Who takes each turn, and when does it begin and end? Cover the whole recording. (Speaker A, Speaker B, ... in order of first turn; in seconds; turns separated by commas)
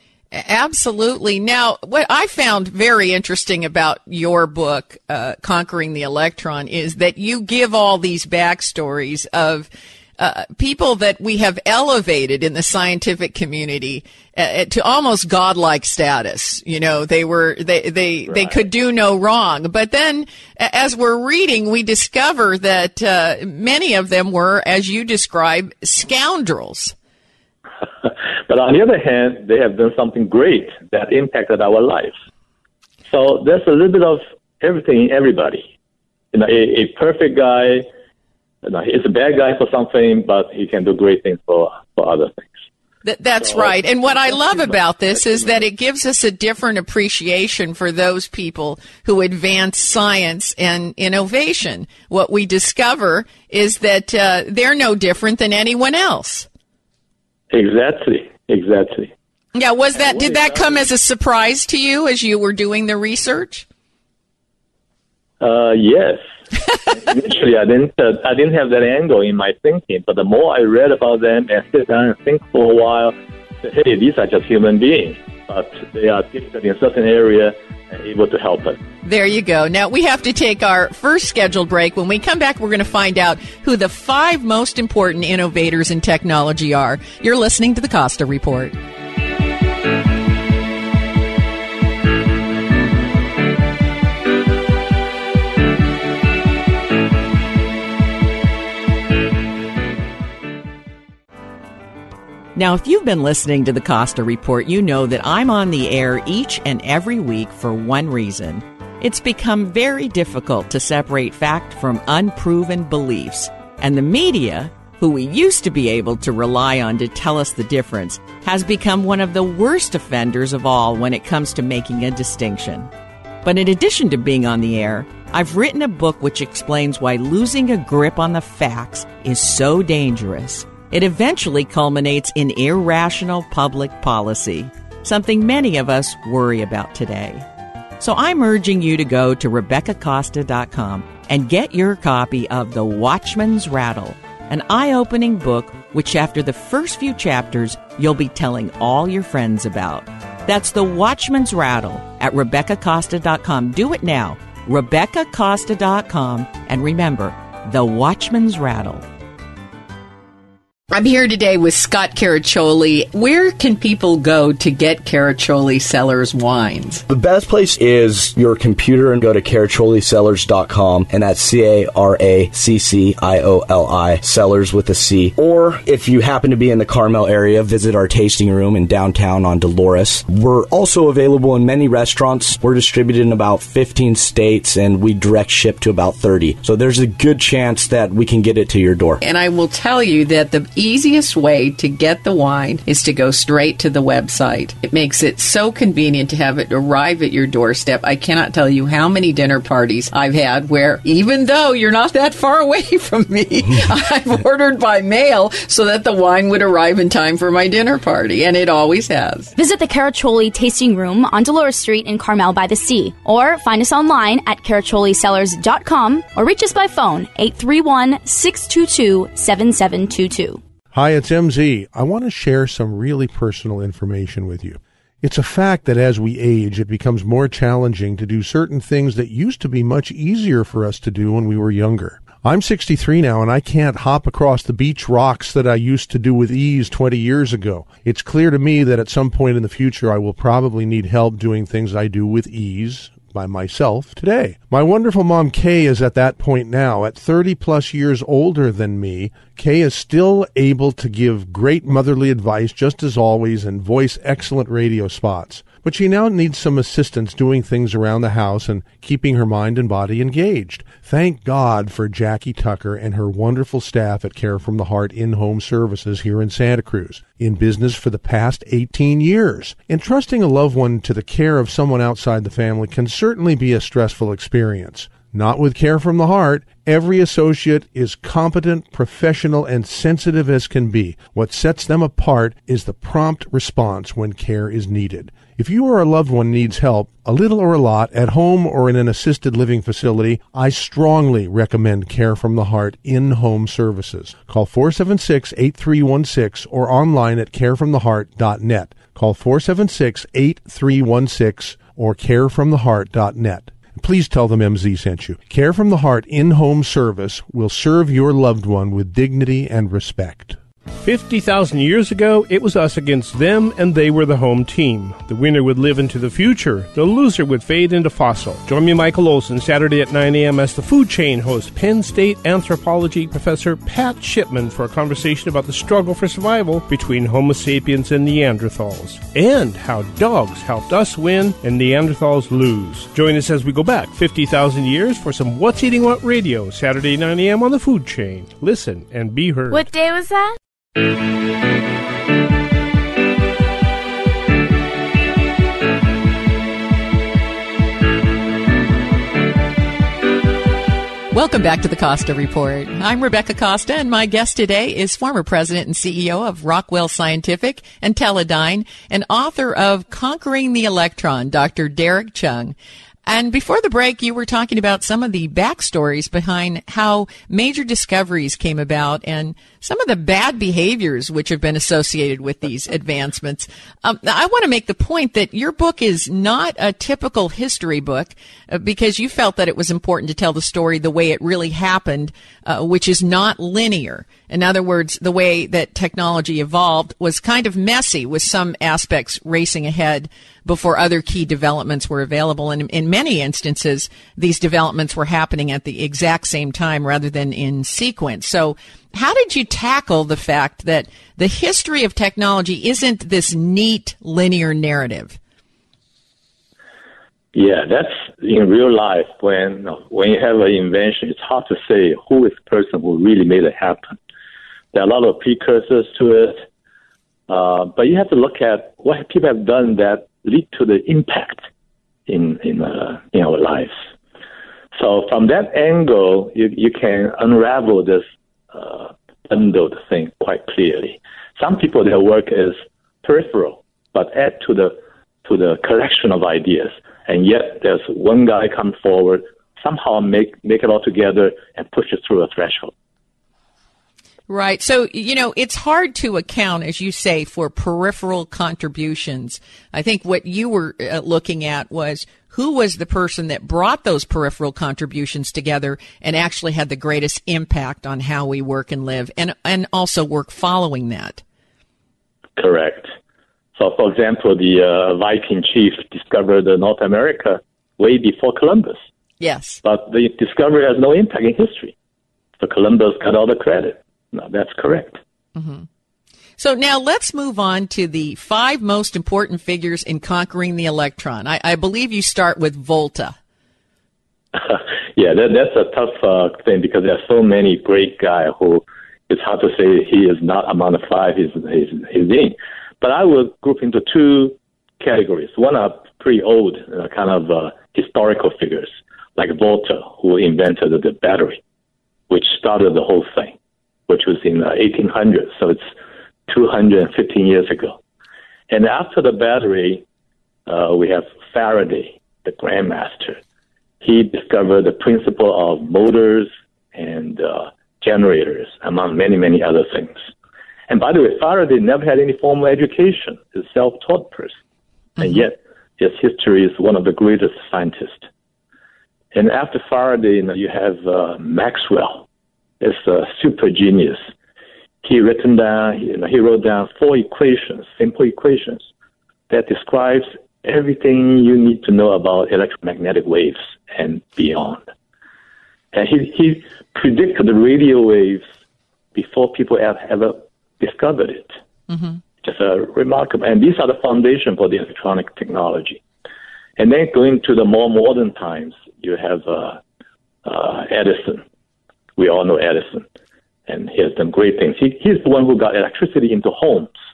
Speaker A: 0.3-26.9, Speaker B: 28.0-32.1, Speaker B: 33.1-35.7, Speaker B: 36.3-37.9, Speaker B: 38.6-42.5, Speaker A: 43.0-56.5, Speaker B: 43.4-45.6, Speaker B: 57.5-59.1, Speaker A: 59.5-63.7, Speaker B: 60.1-60.6, Speaker B: 65.4-66.2, Speaker B: 66.9-78.8, Speaker A: 79.0-88.8, Speaker A: 102.5-122.9, Speaker A: 123.5-137.4, Speaker A: 138.0-159.0, Speaker A: 160.9-167.0, Speaker C: 167.1-189.2, Speaker A: 189.2-209.5, Speaker D: 209.6-220.6, Speaker E: 220.9-310.6, Speaker F: 311.0-339.9, Speaker D: 339.7-340.5, Speaker A: 351.3-362.8, Speaker A: 363.3-405.4, Speaker B: 407.5-414.2, Speaker B: 414.9-416.6, Speaker B: 417.5-421.6, Speaker B: 422.3-423.9, Speaker B: 424.9-442.9, Speaker A: 444.5-461.4, Speaker B: 462.6-463.1, Speaker B: 463.8-469.0, Speaker A: 469.4-469.8, Speaker B: 469.8-471.9, Speaker B: 472.6-475.2, Speaker A: 475.6-475.9, Speaker A: 476.6-483.4, Speaker B: 484.6-501.6, Speaker B: 502.3-503.6, Speaker B: 504.1-505.9, Speaker B: 506.5-508.0, Speaker B: 508.7-510.0, Speaker B: 510.7-513.4, Speaker B: 514.0-520.2, Speaker B: 520.9-524.6, Speaker B: 525.2-528.3, Speaker B: 529.3-532.2, Speaker B: 532.8-534.2, Speaker B: 535.0-538.9, Speaker B: 539.5-544.8, Speaker B: 545.9-548.4, Speaker B: 549.1-551.6, Speaker A: 551.9-552.2, Speaker B: 552.4-556.0, Speaker B: 556.8-559.8, Speaker B: 560.5-561.4, Speaker B: 562.2-563.0, Speaker B: 563.7-566.9